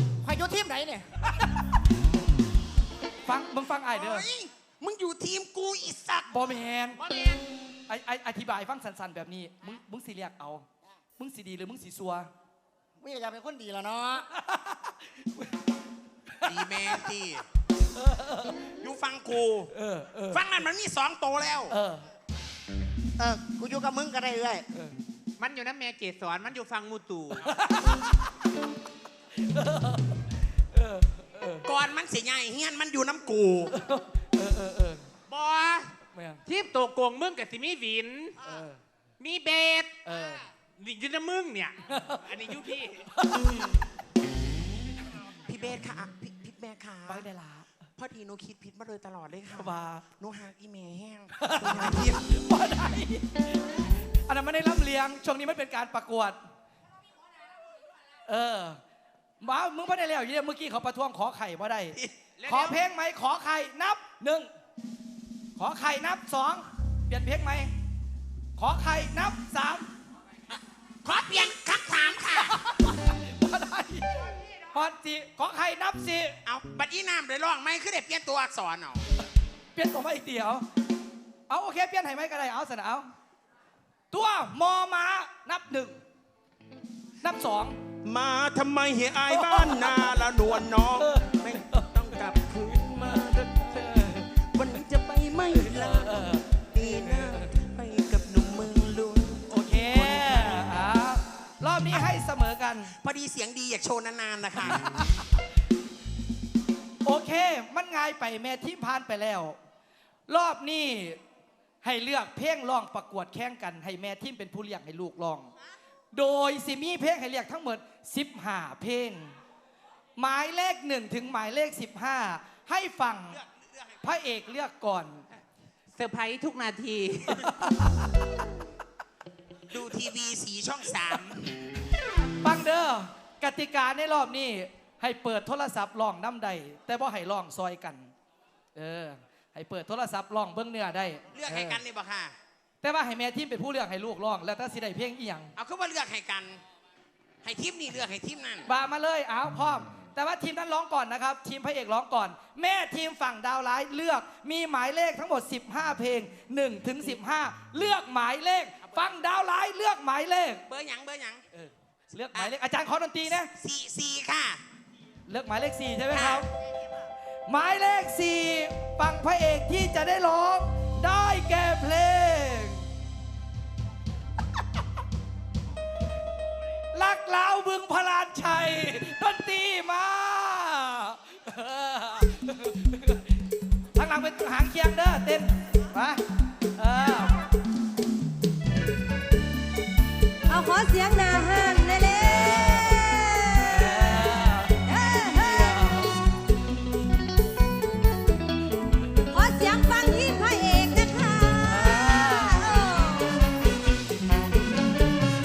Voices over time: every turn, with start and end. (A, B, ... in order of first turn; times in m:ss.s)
0:00.2-0:01.0 A
0:03.2-0:04.3 B
0:03.9-0:06.4 C
0:06.3-0:07.0 B
0:07.0-0:07.4 D
0:07.9-0:10.6 B
0:11.2-0:12.3 B
0:13.0-0:14.3 A
0:14.4-0:15.5 B
0:16.4-0:16.7 B
0:16.4-0:17.4 C
0:18.0-0:18.6 B
0:18.7-0:19.7 C
0:19.7-0:20.4 B
0:20.3-0:21.7 C
0:21.7-0:22.0 B
0:23.2-0:24.6 A
0:25.4-0:27.5 D
0:27.5-0:28.0 B
0:29.4-0:30.0 B
0:30.7-0:31.6 B
0:31.6-0:33.7 C
0:33.7-0:35.1 B
0:35.3-0:35.9 D
0:36.1-0:36.4 B
0:36.4-0:38.4 D
0:38.4-0:38.8 B
0:39.2-0:40.0 D
0:40.0-0:40.4 B
0:40.8-0:43.1 D
0:41.9-0:42.2 B
0:43.2-0:43.5 B
0:45.4-0:47.2 C
0:47.0-0:47.7 B
0:48.0-0:52.2 C
0:49.5-0:50.0 B
0:51.4-0:56.4 B
0:58.3-0:58.8 B
0:59.4-1:04.5 B
1:02.0-1:02.7 C
1:05.6-1:07.7 B
1:08.6-1:09.9 B
1:11.0-1:12.5 C
1:12.6-1:16.4 B
1:16.4-1:19.0 C
1:19.7-1:20.6 B
1:21.5-1:23.1 B
1:24.1-1:26.0 B
1:27.2-1:27.8 B
1:28.0-1:40.6 C
1:29.2-1:30.2 B
1:30.9-1:31.9 B
1:33.7-1:34.3 B
1:35.5-1:37.5 B
1:39.5-1:42.9 B
1:42.9-1:44.9 C
1:44.6-1:45.2 B
1:47.0-1:49.6 B
1:50.3-1:51.2 B
1:51.8-1:55.5 B
1:56.1-1:59.3 B
2:00.2-2:03.4 B
2:03.6-2:04.0 C
2:04.0-2:05.2 B
2:05.9-2:07.5 D
2:07.3-2:08.0 B
2:09.7-2:11.6 C
2:12.4-2:18.1 B
2:18.7-2:21.8 B
2:21.3-2:22.3 C
2:22.8-2:25.5 B
2:25.6-2:26.6 C
2:27.4-2:28.7 C
2:28.6-2:40.6 B
2:40.7-2:41.4 C
2:41.5-2:43.5 B
2:43.4-2:44.6 C
2:45.3-2:46.5 B
2:46.1-2:46.4 C
2:47.5-2:52.8 B
2:56.9-3:03.2 B
3:04.0-3:06.2 B
3:06.8-3:07.4 B
3:10.5-3:13.9 E
3:12.2-3:13.1 B
3:13.6-3:16.2 B
3:14.8-3:15.9 E
3:19.3-3:23.4 E
3:21.6-3:22.8 B